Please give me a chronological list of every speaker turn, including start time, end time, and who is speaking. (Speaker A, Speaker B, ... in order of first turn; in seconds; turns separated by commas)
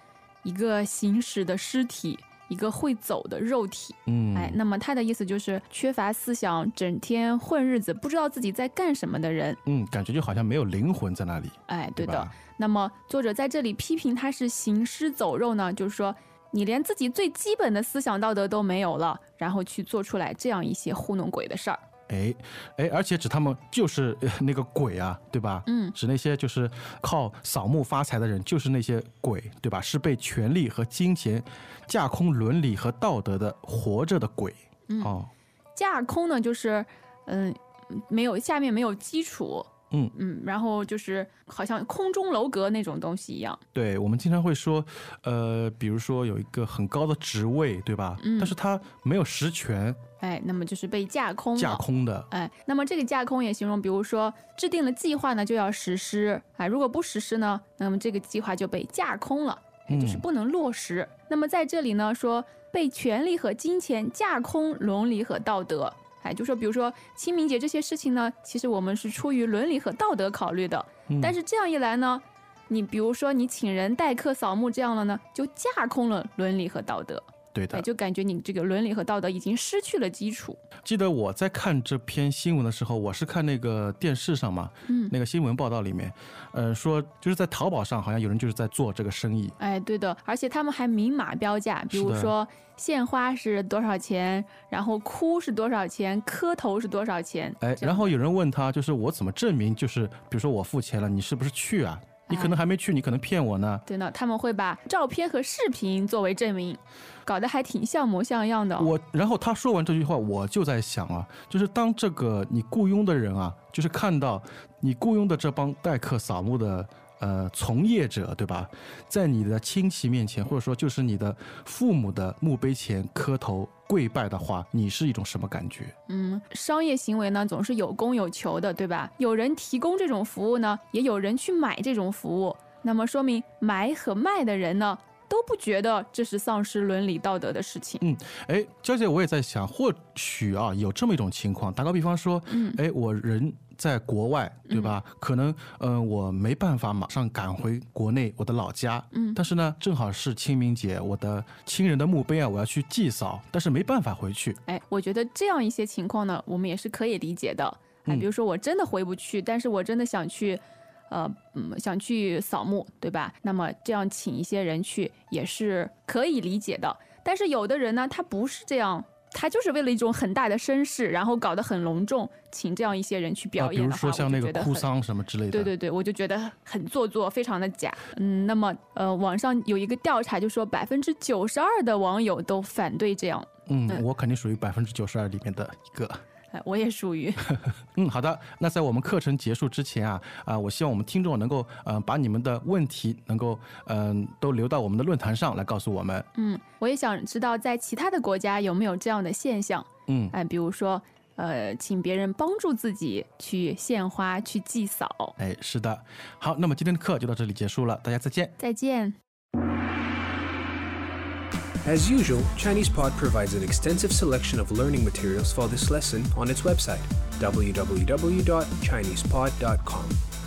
Speaker A: 0.4-9.6, Speaker B: 4.1-4.6, Speaker B: 9.7-12.3, Speaker A: 11.7-21.8, Speaker B: 22.1-35.3, Speaker A: 25.7-25.9, Speaker A: 34.9-35.1, Speaker A: 35.8-43.6, Speaker B: 43.7-50.0, Speaker A: 48.2-48.5, Speaker A: 50.2-80.6, Speaker B: 51.6-52.3, Speaker B: 59.9-60.2, Speaker B: 71.1-71.4, Speaker B: 77.5-77.9, Speaker B: 80.8-89.6, Speaker A: 84.9-85.1, Speaker A: 89.6-98.1, Speaker B: 91.9-92.3, Speaker B: 97.6-103.8, Speaker A: 102.3-102.6, Speaker A: 103.9-108.9, Speaker B: 108.8-125.9, Speaker A: 126.1-138.0, Speaker B: 138.0-154.6, Speaker A: 142.5-142.8, Speaker A: 144.7-145.0, Speaker A: 149.1-149.4, Speaker A: 154.7-174.9, Speaker B: 173.6-175.7, Speaker A: 175.5-184.0, Speaker B: 183.7-186.2, Speaker A: 186.5-187.5, Speaker B: 187.9-196.3, Speaker A: 196.3-205.3, Speaker B: 200.1-200.3, Speaker B: 205.4-208.6, Speaker A: 208.6-209.2, Speaker C: 211.8-220.2